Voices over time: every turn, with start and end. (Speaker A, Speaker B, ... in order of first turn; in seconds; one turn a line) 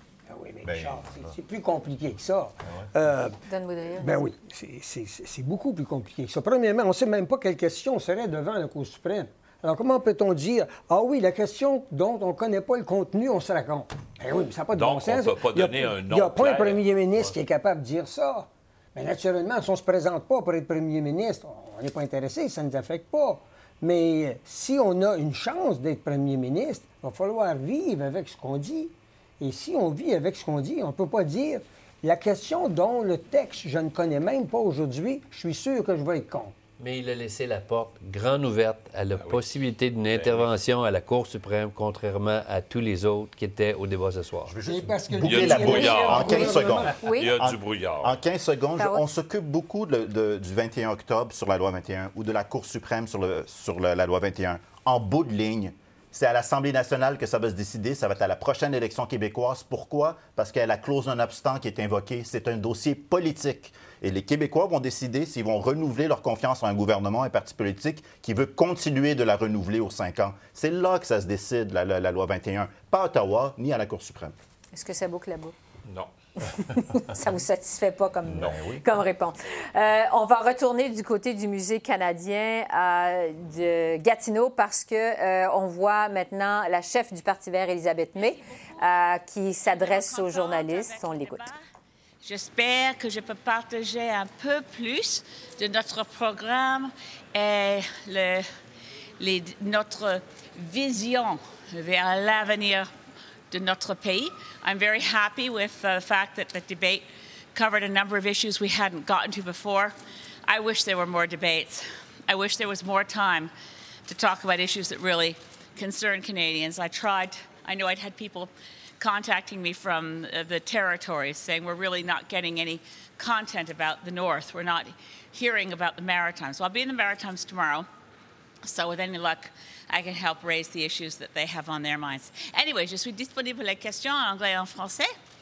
Speaker A: 0.3-3.4
Speaker B: 3.5-4.2
Speaker A: 4.0-36.5
Speaker C: 14.7-17.4
Speaker D: 36.8-44.6
Speaker C: 40.1-40.5
Speaker E: 44.5-74.3
Speaker A: 44.6-47.0
Speaker C: 45.2-48.2
Speaker B: 45.8-46.4
Speaker B: 47.0-47.3
Speaker B: 74.7-75.5
Speaker C: 75.8-76.1
Speaker B: 76.7-91.5
Speaker C: 78.3-78.8
Speaker F: 88.4-88.8
Speaker F: 89.6-91.6
Speaker F: 92.2-98.5
Speaker F: 99.2-102.9
Speaker F: 103.5-110.0
Speaker F: 110.5-113.5
Speaker F: 114.1-127.9
Speaker F: 128.7-135.1